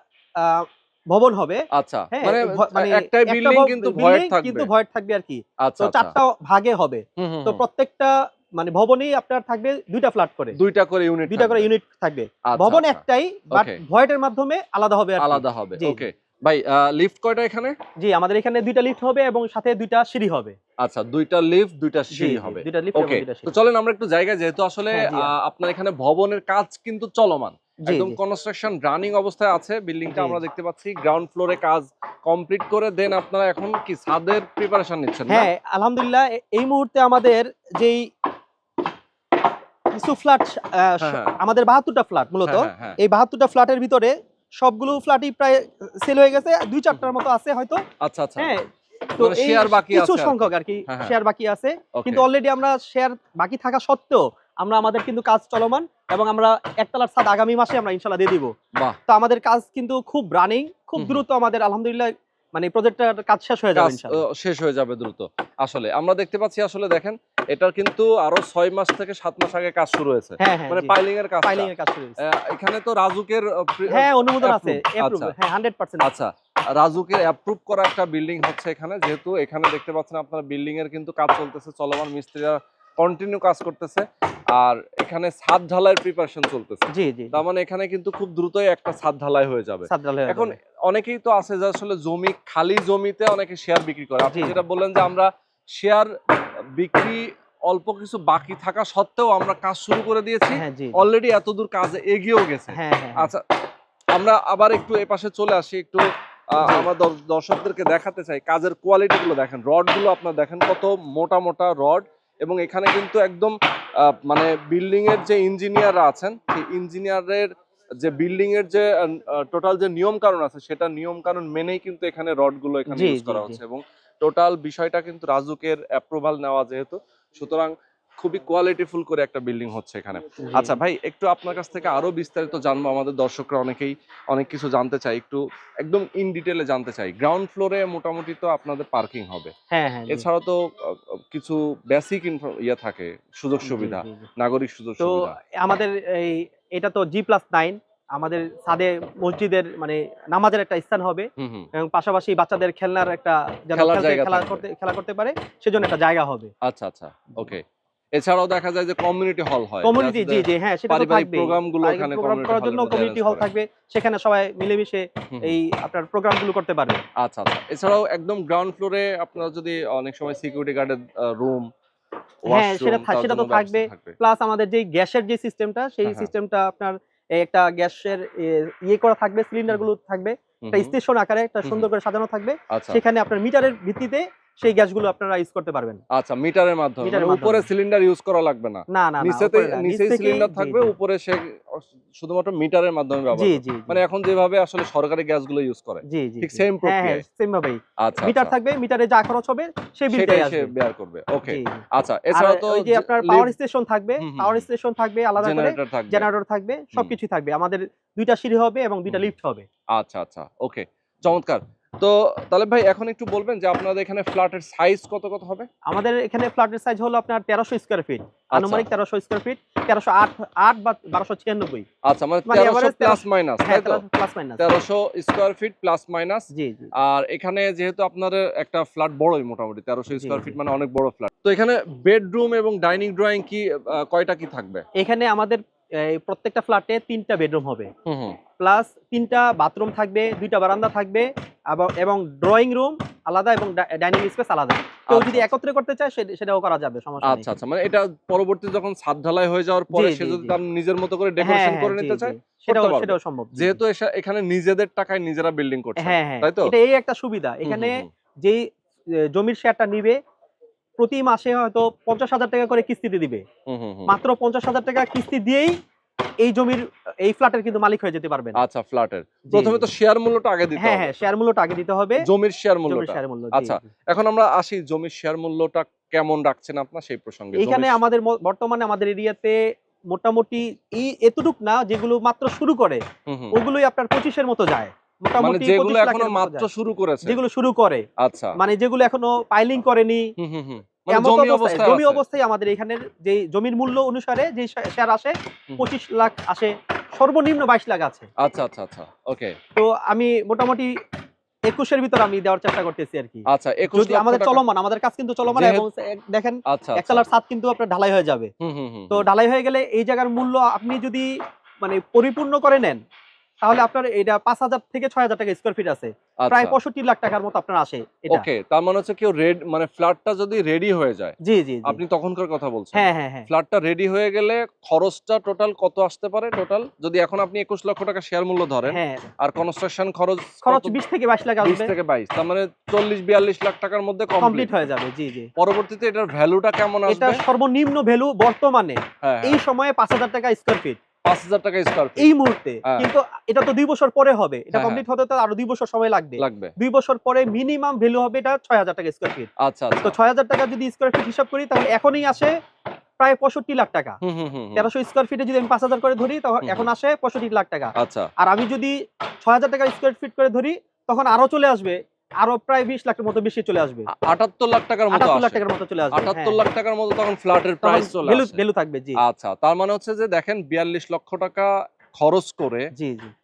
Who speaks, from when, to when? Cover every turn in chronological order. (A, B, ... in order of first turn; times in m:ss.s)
0:00.4-0:10.6 A
0:01.7-0:04.7 B
0:05.6-0:06.1 B
0:07.2-0:07.6 B
0:10.5-0:11.7 B
0:11.3-0:16.0 A
0:12.5-0:13.8 B
0:15.2-0:17.8 B
0:18.0-0:20.6 A
0:20.8-0:35.5 B
0:22.1-0:23.5 A
0:24.9-0:25.3 A
0:27.8-0:28.2 A
0:30.1-0:30.4 A
0:35.3-0:38.1 A
0:39.9-0:47.8 A
0:41.0-0:41.4 B
0:42.5-0:43.0 B
0:48.0-0:48.6 B
0:48.4-0:48.6 A
0:49.2-0:58.5 A
0:49.2-0:51.1 B
0:52.0-0:52.2 B
0:59.1-1:04.2 A
1:03.8-1:15.3 B
1:10.4-1:12.2 A
1:13.9-1:16.1 A
1:16.0-1:43.4 B
1:26.9-1:27.4 A
1:29.9-1:30.6 A
1:34.3-1:34.6 A
1:40.5-1:41.0 A
1:42.7-1:43.3 A
1:44.1-1:57.5 B
1:46.6-1:46.9 A
1:58.0-2:19.5 B
2:02.9-2:03.6 A
2:10.5-2:10.8 A
2:19.7-2:20.3 A
2:20.1-2:25.4 B
2:23.6-2:24.3 A
2:25.0-2:36.5 A
2:31.4-2:31.7 B
2:33.7-2:34.6 B
2:36.6-2:37.6 B
2:38.2-2:43.5 B
2:39.8-2:47.0 A
2:47.2-2:51.7 B
2:52.4-2:54.2 B
2:52.5-3:06.0 A
2:56.0-2:56.3 B
3:00.6-3:00.9 B
3:02.7-3:03.0 B
3:06.1-3:17.2 B
3:07.0-3:07.7 A
3:08.9-3:10.9 A
3:13.3-3:14.0 A
3:16.1-3:20.7 A
3:18.0-3:18.5 B
3:20.1-3:23.5 B
3:21.5-3:21.8 A
3:22.3-3:29.7 A
3:24.2-3:24.7 B
3:25.4-3:26.3 B
3:30.0-3:35.7 B
3:35.9-3:41.8 A
3:38.5-3:38.9 B
3:42.0-3:44.0 B
3:42.5-3:44.8 A
3:44.6-3:46.5 B
3:46.5-3:46.9 A
3:47.0-3:54.8 B
3:50.2-3:50.6 A
3:55.0-3:57.9 A
3:58.1-3:58.4 B
3:58.6-4:07.5 A
4:05.1-4:05.5 B
4:07.2-4:16.7 B
4:09.9-4:10.6 A
4:11.4-4:13.8 A
4:16.0-4:18.6 A
4:17.6-4:18.1 B
4:19.3-4:20.2 A
4:21.0-4:23.4 A
4:23.7-4:24.2 B
4:24.1-4:25.8 A
4:26.4-4:28.6 A
4:28.6-4:31.1 B
4:29.5-4:29.9 A
4:30.8-4:32.2 A
4:32.2-4:38.0 B
4:32.9-4:33.9 A
4:37.6-4:39.6 A
4:40.1-4:43.0 A
4:43.3-4:43.6 B
4:43.5-4:46.7 A
4:45.4-4:47.4 B
4:47.2-4:50.3 A
4:48.2-4:48.6 B
4:50.4-4:52.2 B
4:51.1-4:58.3 A
4:58.4-4:59.6 B
4:59.8-5:00.9 A
5:01.7-5:08.5 A
5:03.5-5:04.6 B
5:05.5-5:05.8 B
5:06.7-5:07.2 B
5:08.6-5:09.3 B
5:09.1-5:11.3 A
5:11.8-5:13.0 A
5:13.6-5:18.5 A
5:16.4-5:16.8 B
5:18.3-5:31.0 B
5:21.4-5:22.0 A
5:22.9-5:23.5 A
5:28.9-5:29.3 A
5:30.6-5:31.9 A
5:31.6-5:34.8 B
5:34.4-5:35.5 A
5:35.6-5:37.4 B
5:37.1-5:41.0 A
5:39.2-5:39.6 B
5:41.3-5:42.3 B
5:42.2-5:49.5 A
5:44.7-5:45.0 B
5:46.4-5:46.7 B
5:49.6-5:50.2 B
5:50.0-5:52.5 A
5:53.2-5:54.2 A
5:54.2-5:54.9 B
5:54.8-6:04.1 A
5:56.6-5:56.9 B
5:58.0-5:58.3 B
6:04.1-6:08.6 B
6:05.1-6:06.6 A
6:07.8-6:09.2 A
6:09.2-6:12.9 B
6:13.0-6:13.3 A